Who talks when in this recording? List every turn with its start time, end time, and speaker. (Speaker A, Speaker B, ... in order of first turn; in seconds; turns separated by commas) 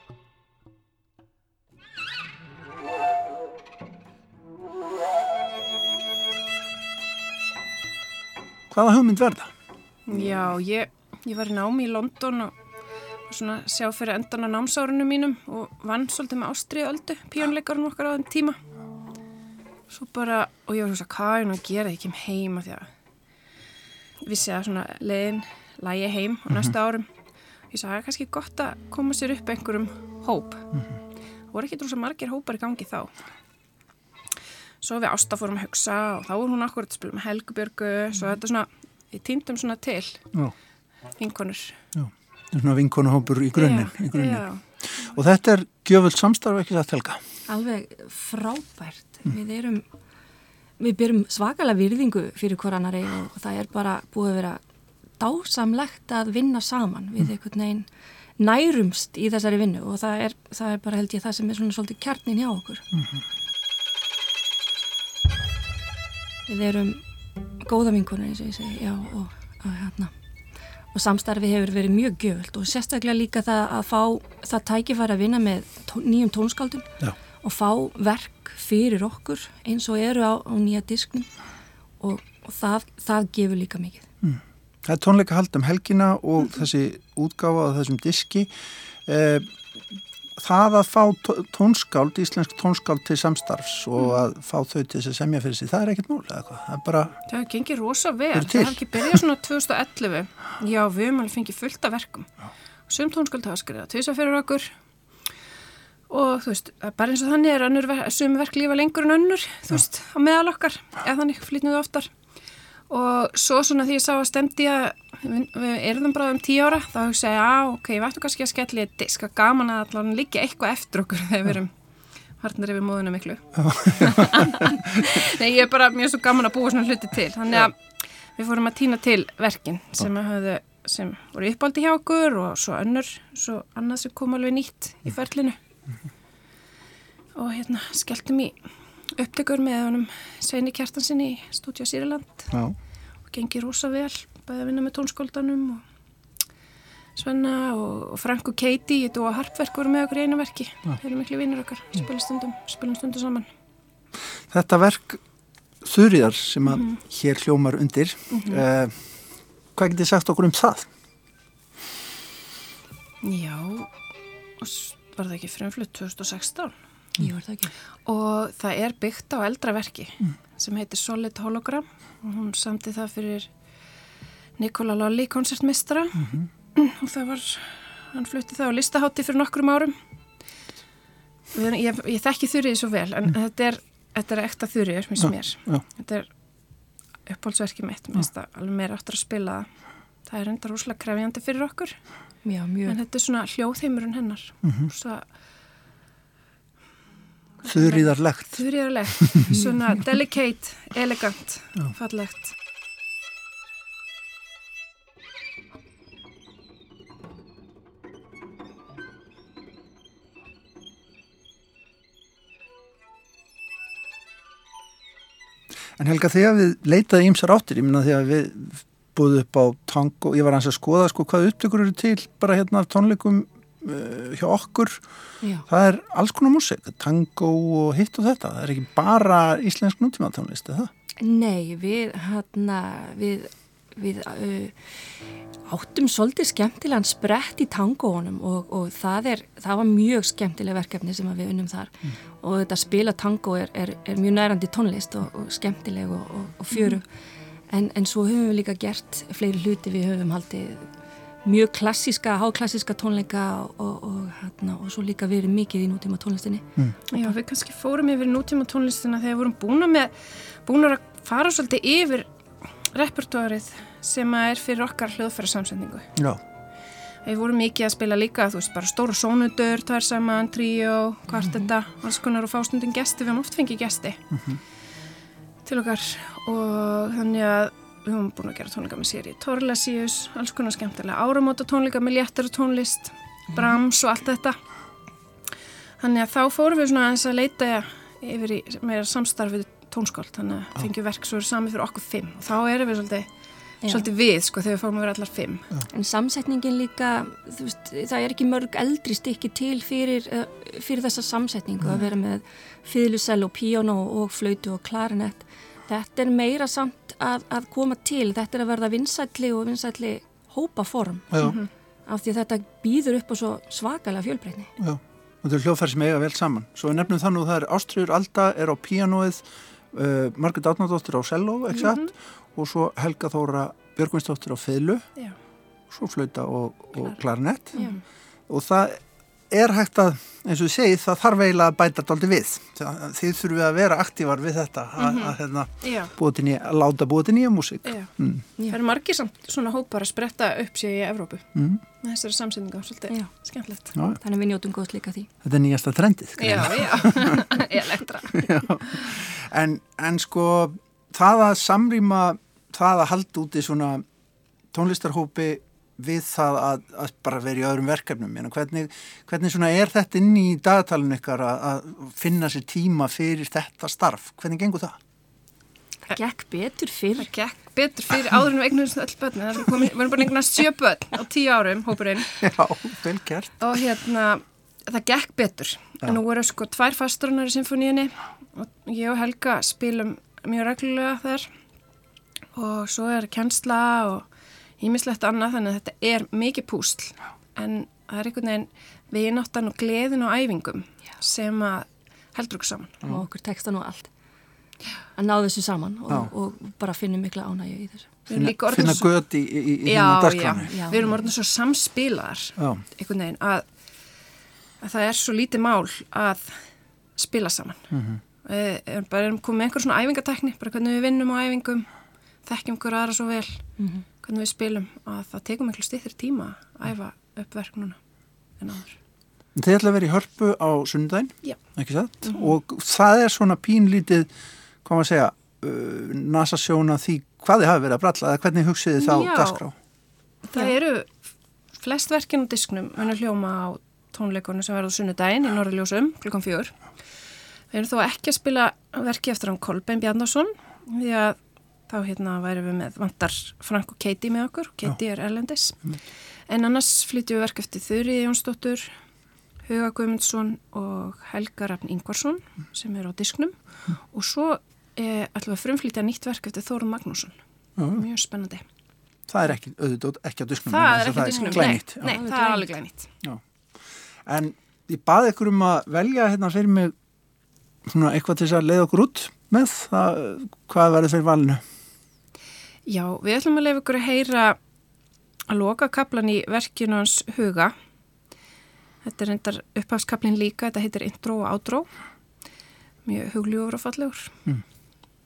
Speaker A: 8.7-9.5, Speaker B: 10.1-12.5, Speaker A: 10.1-10.5, Speaker B: 13.3-18.6, Speaker B: 19.9-22.9, Speaker B: 24.2-27.1, Speaker B: 27.7-30.6, Speaker B: 31.5-33.1, Speaker B: 34.8-40.2, Speaker B: 41.2-41.8, Speaker A: 41.9-47.2, Speaker B: 43.5-44.8, Speaker C: 47.5-49.9, Speaker C: 50.8-54.6, Speaker C: 55.2-57.9, Speaker C: 58.4-62.8, Speaker C: 66.5-67.0, Speaker C: 67.6-70.1, Speaker C: 70.9-76.9, Speaker C: 77.4-81.3, Speaker C: 82.0-84.1, Speaker A: 84.2-88.5, Speaker A: 89.0-89.6, Speaker A: 90.4-97.2, Speaker B: 97.3-102.3, Speaker A: 98.3-99.1, Speaker B: 102.9-104.7, Speaker B: 106.1-112.1, Speaker B: 112.9-121.7, Speaker B: 122.4-135.6, Speaker A: 123.6-124.5, Speaker B: 137.3-142.5, Speaker A: 142.5-142.8, Speaker B: 143.3-145.8, Speaker B: 147.2-153.5, Speaker A: 154.5-155.2, Speaker A: 155.8-159.0, Speaker B: 156.7-157.0, Speaker B: 158.3-158.6, Speaker A: 159.7-160.9, Speaker B: 163.2-163.9, Speaker B: 164.6-166.8, Speaker C: 167.2-167.7, Speaker B: 168.1-173.5, Speaker B: 174.6-179.9, Speaker B: 181.5-186.3, Speaker A: 185.2-185.8, Speaker B: 187.2-189.7, Speaker B: 190.2-192.0, Speaker C: 192.4-193.0, Speaker B: 192.8-195.2, Speaker A: 194.6-194.9, Speaker A: 197.6-199.3, Speaker B: 197.6-202.5, Speaker C: 199.5-199.8, Speaker A: 216.0-225.0, Speaker A: 225.7-230.9, Speaker C: 231.2-247.1, Speaker C: 247.7-250.9, Speaker C: 251.4-257.3, Speaker B: 257.1-266.1, Speaker B: 267.2-274.2, Speaker A: 274.3-274.6, Speaker B: 275.6-284.6, Speaker B: 286.0-293.3, Speaker C: 293.8-294.1, Speaker B: 293.8-295.7, Speaker C: 295.9-311.3, Speaker B: 311.4-311.7, Speaker C: 312.1-314.7, Speaker A: 314.8-325.1, Speaker B: 321.7-322.1, Speaker A: 325.9-327.9, Speaker B: 327.7-328.0, Speaker A: 328.5-338.4, Speaker B: 335.0-336.1, Speaker B: 337.8-338.1, Speaker B: 338.7-341.5, Speaker A: 341.5-341.8, Speaker B: 342.0-343.9, Speaker C: 344.2-345.3, Speaker A: 345.4-354.0, Speaker B: 346.4-348.4, Speaker A: 354.7-365.0, Speaker C: 366.1-367.3, Speaker B: 367.2-372.5, Speaker A: 372.4-373.8, Speaker B: 373.6-381.5, Speaker B: 382.5-384.3, Speaker B: 384.8-393.0, Speaker C: 393.0-394.1, Speaker C: 395.1-398.1, Speaker B: 398.3-399.2, Speaker A: 398.3-400.7, Speaker B: 399.8-403.6, Speaker C: 400.7-401.2, Speaker A: 402.6-402.8, Speaker B: 404.8-407.9, Speaker A: 407.9-408.2, Speaker B: 408.4-411.9, Speaker B: 412.4-418.0, Speaker C: 413.8-414.0, Speaker B: 418.6-419.0, Speaker A: 419.5-424.3, Speaker B: 422.2-422.6, Speaker A: 424.8-429.7, Speaker B: 429.0-429.6, Speaker B: 430.4-436.8, Speaker B: 437.7-441.4, Speaker B: 441.9-448.9, Speaker B: 449.6-458.6, Speaker A: 457.8-458.0, Speaker A: 459.3-462.2, Speaker B: 460.7-463.1, Speaker C: 461.4-462.7, Speaker A: 464.2-466.9, Speaker A: 467.9-471.6, Speaker B: 472.9-474.6, Speaker B: 475.5-477.7, Speaker B: 479.0-481.9, Speaker B: 483.0-484.3